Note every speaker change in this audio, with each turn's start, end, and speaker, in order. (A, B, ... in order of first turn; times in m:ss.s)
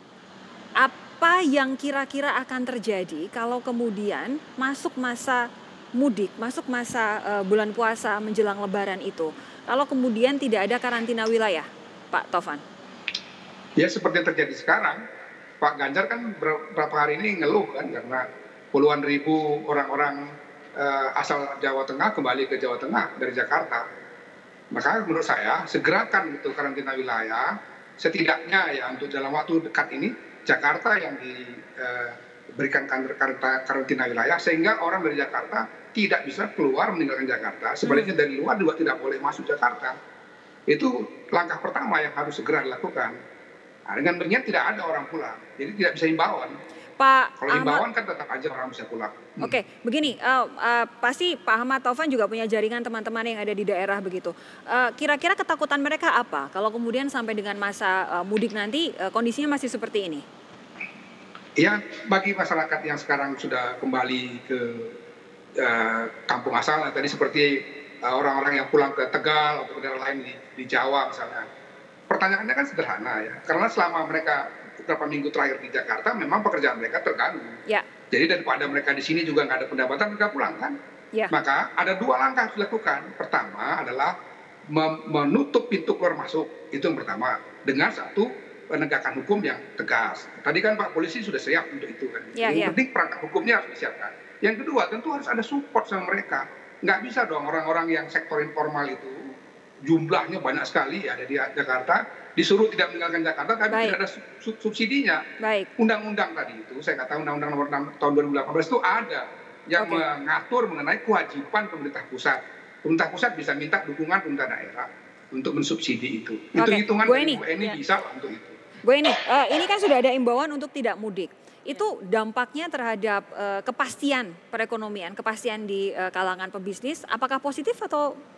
0:00.8-0:05.4 A
0:06.0-0:12.6 A
0:13.8-0:15.0 B
0:15.6-0:20.2 B
0:20.8-0:23.8 B
0:24.7-0:40.0 B
0:37.8-0:38.1 A
0:40.7-0:43.2 B
0:43.9-0:46.6 B
0:47.0-0:47.8 A
0:47.4-0:49.6 B
0:49.4-1:00.2 A
1:01.6-1:04.9 B
1:05.6-1:11.5 B
1:12.1-1:17.6 B
1:18.1-1:20.8 B
1:21.3-1:24.1 B
1:24.7-1:39.3 B
1:32.4-1:32.8 A
1:39.8-1:45.2 B
1:43.7-1:44.0 A
1:45.4-1:45.7 A
1:45.8-1:58.6 B
1:49.8-1:50.0 A
1:56.6-1:57.4 A
1:58.8-2:08.2 A